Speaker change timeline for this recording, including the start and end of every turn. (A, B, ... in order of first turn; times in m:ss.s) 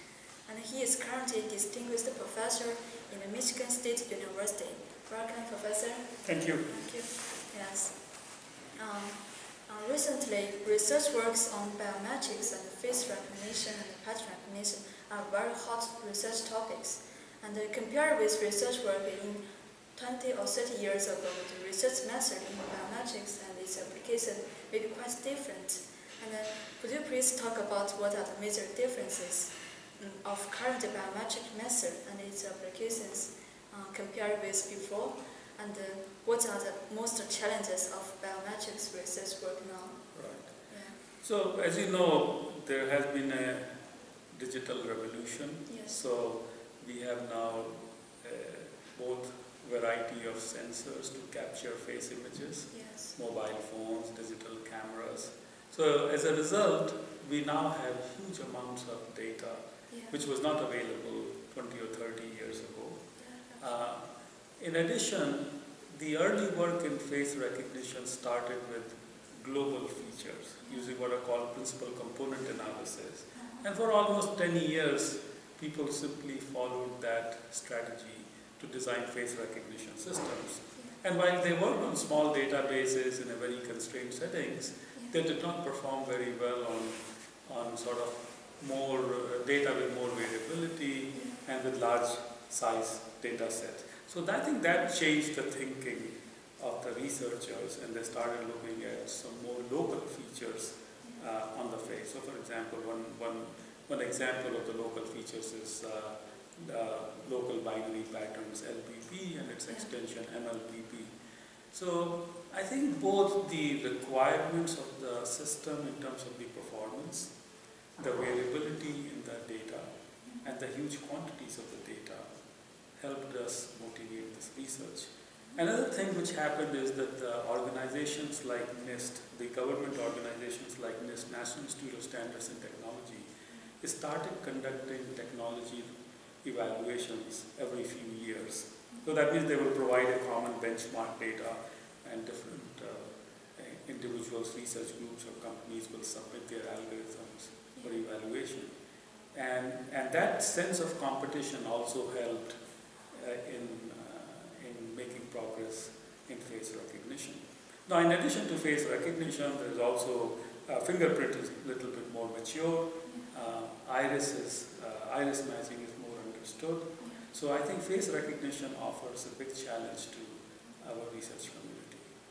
0:00.4-0:19.4 A
0:06.2-0:06.8 B
0:19.9-0:41.0 A
0:40.1-0:43.8 B
0:44.3-1:03.0 B
0:45.7-0:46.0 A
0:52.7-0:53.1 A
0:59.9-1:00.2 A
1:03.2-1:03.8 A
1:03.6-1:04.0 B
1:04.6-1:51.1 B
1:10.6-1:11.0 A
1:13.3-1:13.6 A
1:51.7-1:57.3 B
1:58.0-1:59.9 B
2:00.4-2:02.3 B
2:03.0-2:15.9 B
2:16.4-2:28.7 B
2:29.3-2:32.6 B
2:33.1-2:52.1 B
2:47.0-2:47.2 A